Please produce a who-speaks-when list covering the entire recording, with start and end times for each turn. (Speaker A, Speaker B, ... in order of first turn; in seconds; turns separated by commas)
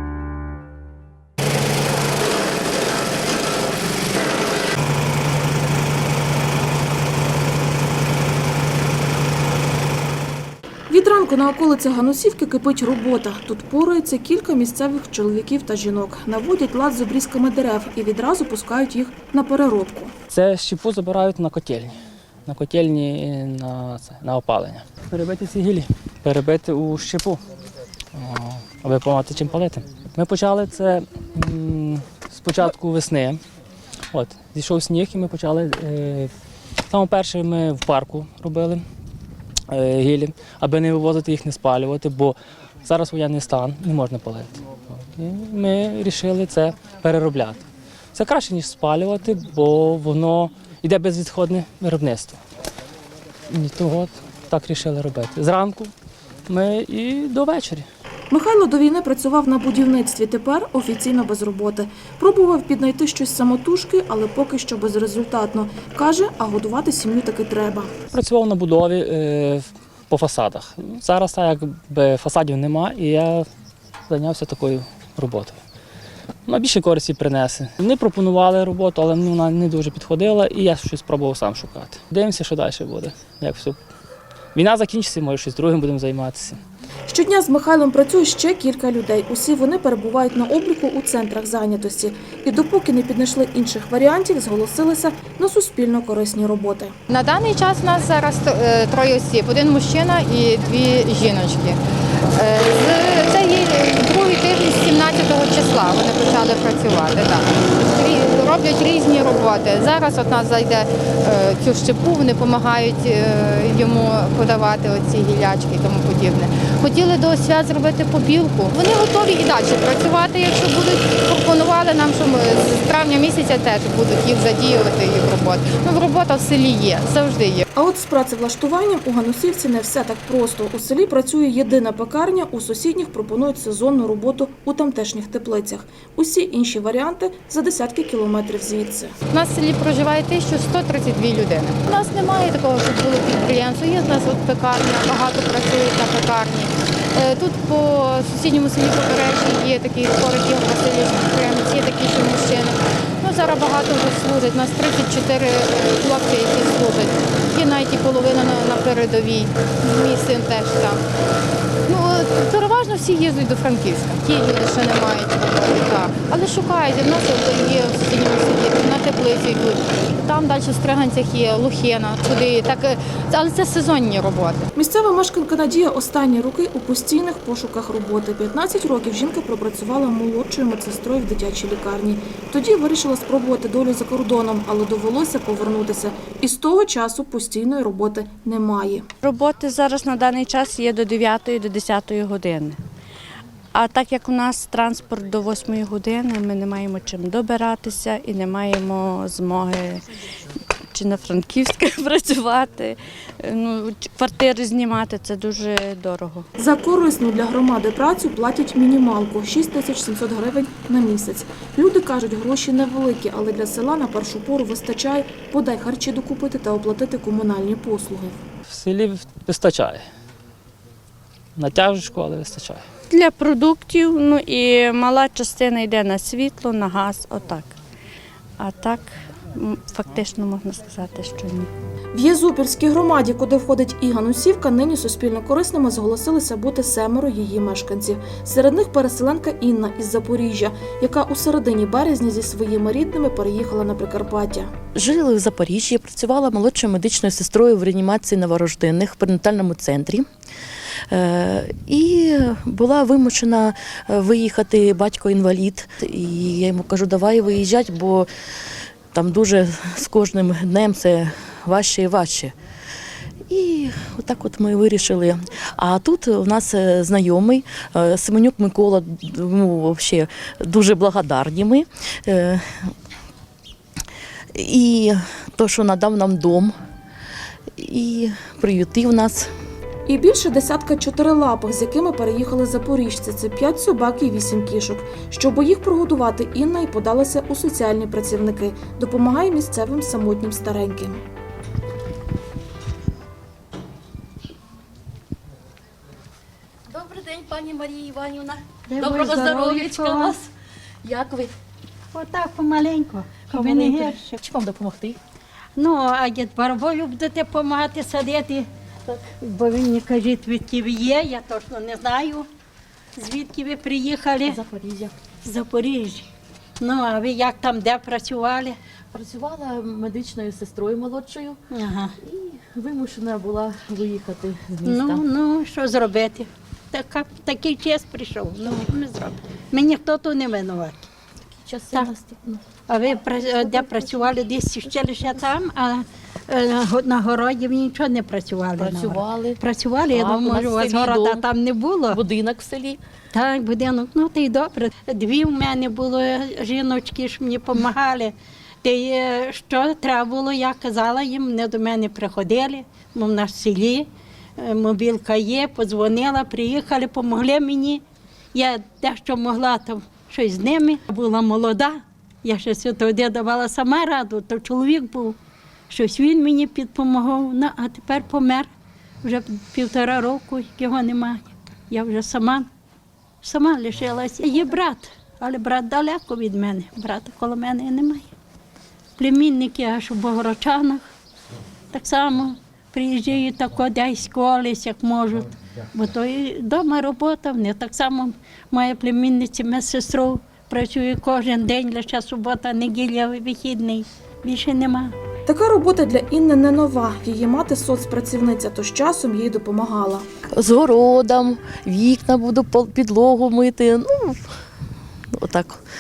Speaker A: 10.9-20.1, Speaker B: 20.3-21.9, Speaker B: 22.5-27.4, Speaker B: 28.1-33.4, Speaker B: 34.1-36.3, Speaker B: 36.9-38.8, Speaker B: 39.7-44.6, Speaker B: 45.1-47.6, Speaker B: 48.1-52.4, Speaker B: 53.5-55.9, Speaker B: 56.5-57.9, Speaker A: 58.3-67.9, Speaker B: 68.1-73.5, Speaker B: 74.1-75.6, Speaker B: 76.5-83.8, Speaker B: 84.5-86.6, Speaker A: 87.1-97.0, Speaker C: 97.1-101.8, Speaker C: 102.3-127.6, Speaker A: 127.8-139.1, Speaker C: 139.3-161.0, Speaker C: 161.8-174.7, Speaker A: 174.8-189.1, Speaker D: 189.2-192.8, Speaker D: 193.8-200.0, Speaker D: 200.9-206.5, Speaker A: 206.6-218.4, Speaker B: 218.7-220.1, Speaker B: 221.6-222.8, Speaker D: 223.1-227.7, Speaker D: 228.6-231.7, Speaker A: 232.1-244.7, Speaker E: 245.0-250.2, Speaker E: 251.1-258.3, Speaker E: 259.1-262.5, Speaker E: 263.5-272.9, Speaker E: 274.5-276.7, Speaker E: 277.8-279.5, Speaker A: 280.1-291.2, Speaker E: 296.9-300.5, Speaker F: 298.9-300.4, Speaker E: 301.0-301.5, Speaker F: 302.1-304.4, Speaker E: 303.5-305.2, Speaker F: 305.8-312.5, Speaker F: 313.2-314.6, Speaker E: 314.4-315.1, Speaker F: 315.4-316.3, Speaker F: 316.8-318.8, Speaker E: 319.1-321.6, Speaker F: 321.7-322.1, Speaker E: 322.2-325.3, Speaker F: 324.9-331.1, Speaker E: 331.6-332.7, Speaker F: 332.9-342.2, Speaker E: 333.4-335.5, Speaker E: 338.8-341.5, Speaker E: 342.1-343.0, Speaker F: 343.3-354.1, Speaker F: 354.6-358.0, Speaker F: 358.5-365.4, Speaker F: 365.9-368.7, Speaker F: 369.2-372.7, Speaker F: 373.4-378.3, Speaker F: 379.2-381.1, Speaker F: 381.9-395.1, Speaker A: 395.5-400.2, Speaker E: 400.6-404.5, Speaker E: 405.3-405.8